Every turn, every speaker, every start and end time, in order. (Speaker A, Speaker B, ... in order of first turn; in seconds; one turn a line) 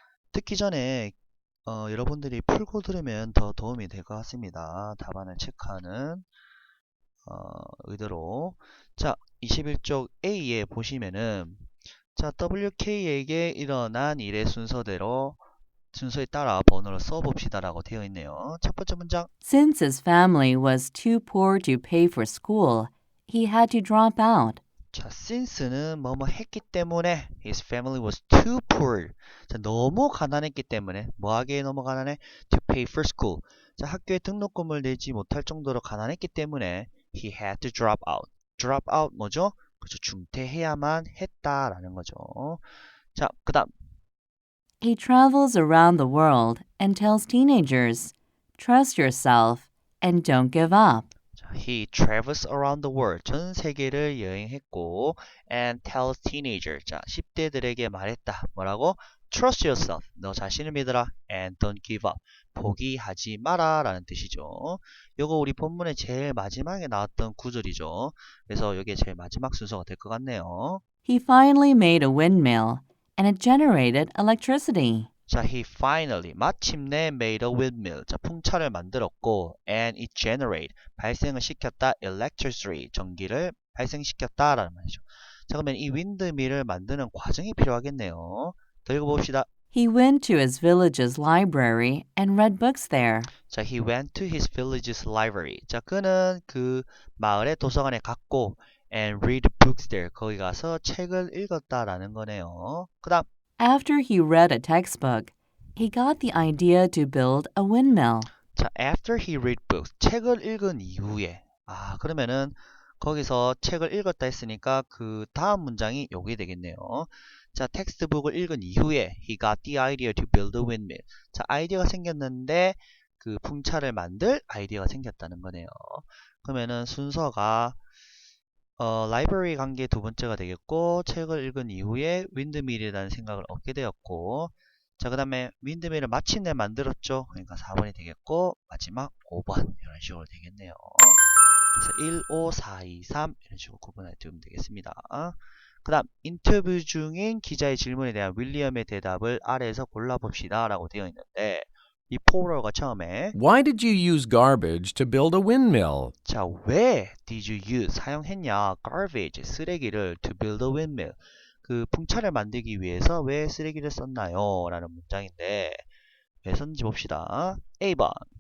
Speaker A: 0.3-1.1
Speaker A: 1.7-6.3
Speaker A: 7.2-15.4
Speaker A: 15.9-19.3
Speaker B: 19.4-24.6
Speaker A: 24.9-43.7
Speaker B: 44.8-51.1
Speaker A: 51.4-70.8
Speaker B: 71.1-75.1
Speaker A: 75.3-89.5
Speaker B: 89.7-93.3
Speaker A: 93.5-103.3
Speaker B: 103.6-108.3
Speaker A: 108.5-127.8
Speaker A: 128.8-141.2
Speaker A: 141.8-153.3
Speaker C: 153.3-156.1
Speaker A: 156.2-165.8
Speaker A: 166.4-168.2